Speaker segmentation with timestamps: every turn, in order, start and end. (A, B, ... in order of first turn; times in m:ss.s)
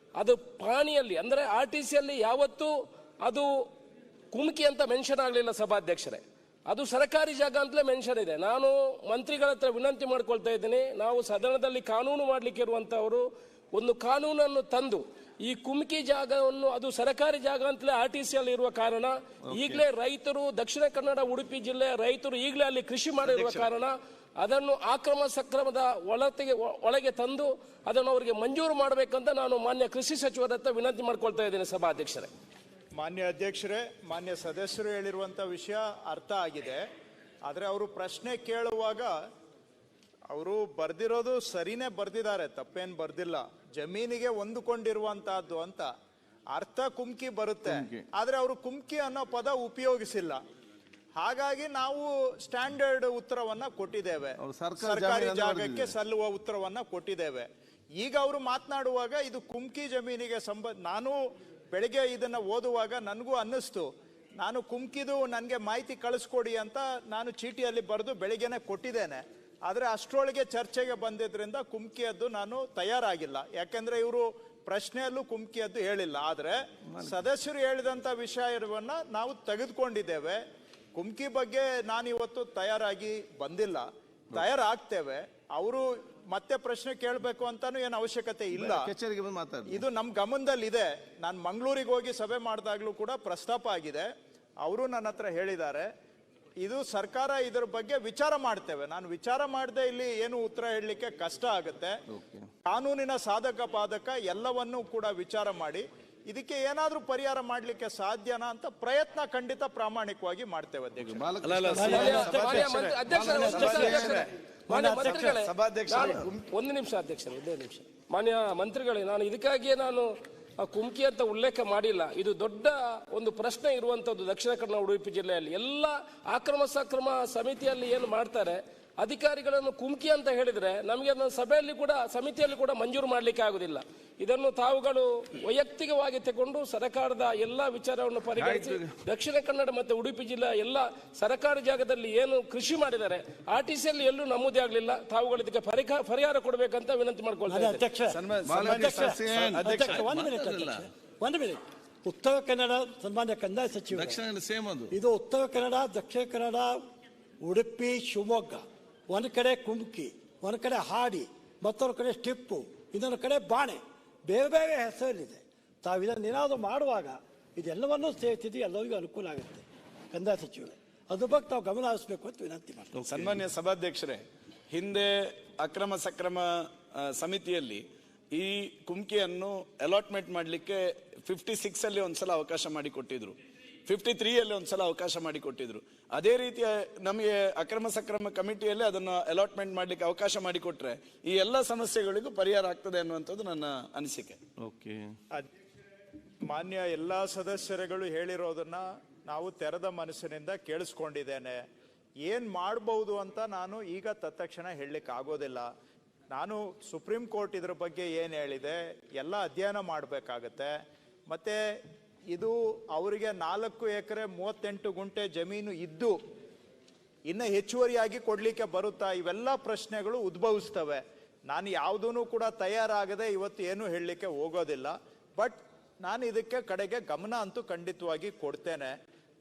0:00.2-0:03.5 A
0:04.3-0:32.3 A
0:19.5-0:19.8 B
0:23.2-0:23.7 C
0:33.0-0:36.8 D
0:37.5-0:39.1 D
0:40.3-0:45.9 D
0:46.5-0:50.4 D
0:47.7-0:48.1 B
0:51.2-0:57.5 D
0:54.4-0:56.0 B
0:58.0-1:01.2 D
1:01.7-1:03.9 D
1:04.4-1:20.4 D
1:21.0-1:28.9 D
1:28.5-1:29.8 B
1:29.7-1:34.1 D
1:34.6-1:35.9 D
1:36.6-1:41.9 D
1:42.1-1:42.5 B
1:42.7-1:51.3 D
1:51.0-1:52.6 B
1:51.4-1:52.3 C
1:51.7-1:54.0 E
1:51.8-2:27.8 A
1:52.3-1:54.3 D
1:53.1-1:53.6 B
1:53.4-1:54.3 C
1:54.7-1:55.4 E
1:55.0-1:56.4 C
2:18.4-2:18.9 B
2:27.5-2:34.2 E
2:28.1-2:30.0 C
2:28.4-2:30.9 B
2:33.9-2:34.9 B
2:34.9-2:36.8 E
2:37.4-2:53.0 E
2:53.0-2:53.4 B
2:53.1-3:14.4 C
3:14.6-3:15.1 B
3:16.5-3:21.6 D
3:22.2-3:25.6 D
3:26.3-3:30.7 D
3:31.3-3:31.6 D
3:32.3-3:36.2 D
3:37.3-3:48.9 D